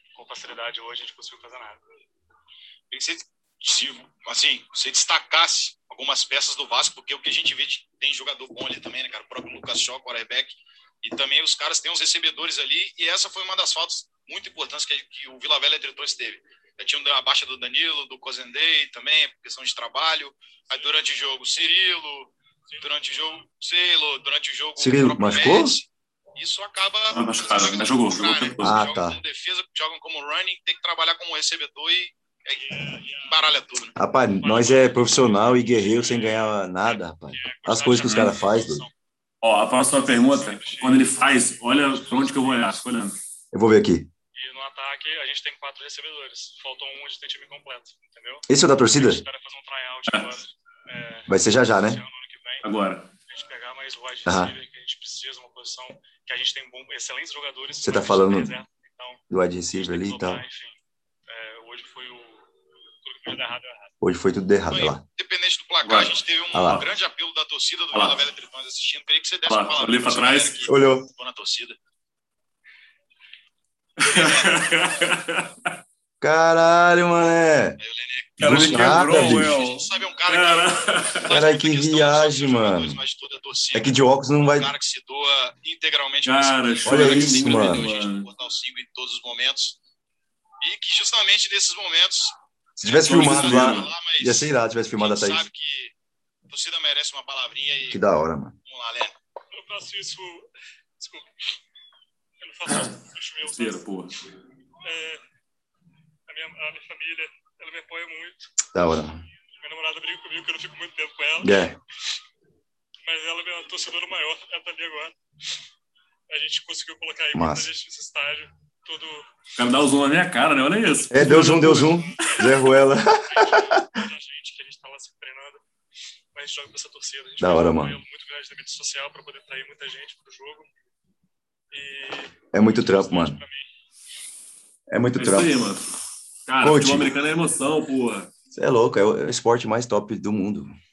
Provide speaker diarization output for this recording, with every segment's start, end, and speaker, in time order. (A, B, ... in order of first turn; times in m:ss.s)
0:00.1-0:01.8 A
0:02.9-0:33.9 B
0:24.8-0:25.8 C
0:27.1-0:28.8 D
0:28.6-0:29.2 C
0:32.7-0:33.2 A
0:34.0-0:38.8 C
0:34.4-0:38.9 A
0:38.0-0:38.3 D
0:39.4-0:43.2 D
0:40.1-0:42.8 A
0:43.5-0:44.1 C
0:44.3-0:52.6 A
0:48.5-0:49.2 C
0:51.3-0:52.0 C
0:52.6-0:53.1 D
0:53.3-0:59.2 A
0:54.2-0:54.5 C
0:57.8-0:58.5 C
0:59.3-1:00.4 C
0:59.8-1:02.4 A
1:03.0-1:03.9 A
1:04.0-1:05.0 C
1:04.7-1:11.8 B
1:05.8-1:06.8 D
1:06.5-1:06.8 C
1:07.9-1:08.2 D
1:09.5-1:10.7 D
1:10.7-1:11.1 C
1:14.0-1:15.8 D
1:14.1-1:14.6 B
1:16.2-1:17.8 C
1:17.8-1:24.0 B
1:18.4-1:21.3 D
1:18.4-1:19.5 C
1:21.3-1:23.0 C
1:23.7-1:24.7 C
1:24.5-1:29.8 B
1:26.2-1:28.3 D
1:26.8-1:27.8 C
1:30.6-1:35.9 B
1:32.8-1:35.4 C
1:33.0-1:33.9 D
1:36.5-1:38.0 B
1:37.9-1:38.6 C
1:38.6-1:39.2 B
1:39.5-1:40.5 A
1:41.0-1:41.5 A
1:42.4-1:43.8 A
1:43.4-1:44.2 D
1:44.8-1:45.2 A
1:46.3-1:48.4 A
1:48.7-1:49.2 C
1:49.6-1:51.7 A
1:51.4-1:51.8 C
1:53.0-1:55.1 A
1:56.3-1:59.3 A
1:57.3-1:57.7 C
1:59.6-2:02.0 D
2:01.1-2:04.0 C
2:01.9-2:05.6 A
2:06.3-2:10.7 A
2:07.4-2:08.0 C
2:11.7-2:13.7 A
2:12.5-2:13.4 C
2:14.9-2:15.5 C
2:15.2-2:15.9 D
2:16.4-2:18.3 D
2:16.6-2:17.1 C
2:18.5-2:20.8 C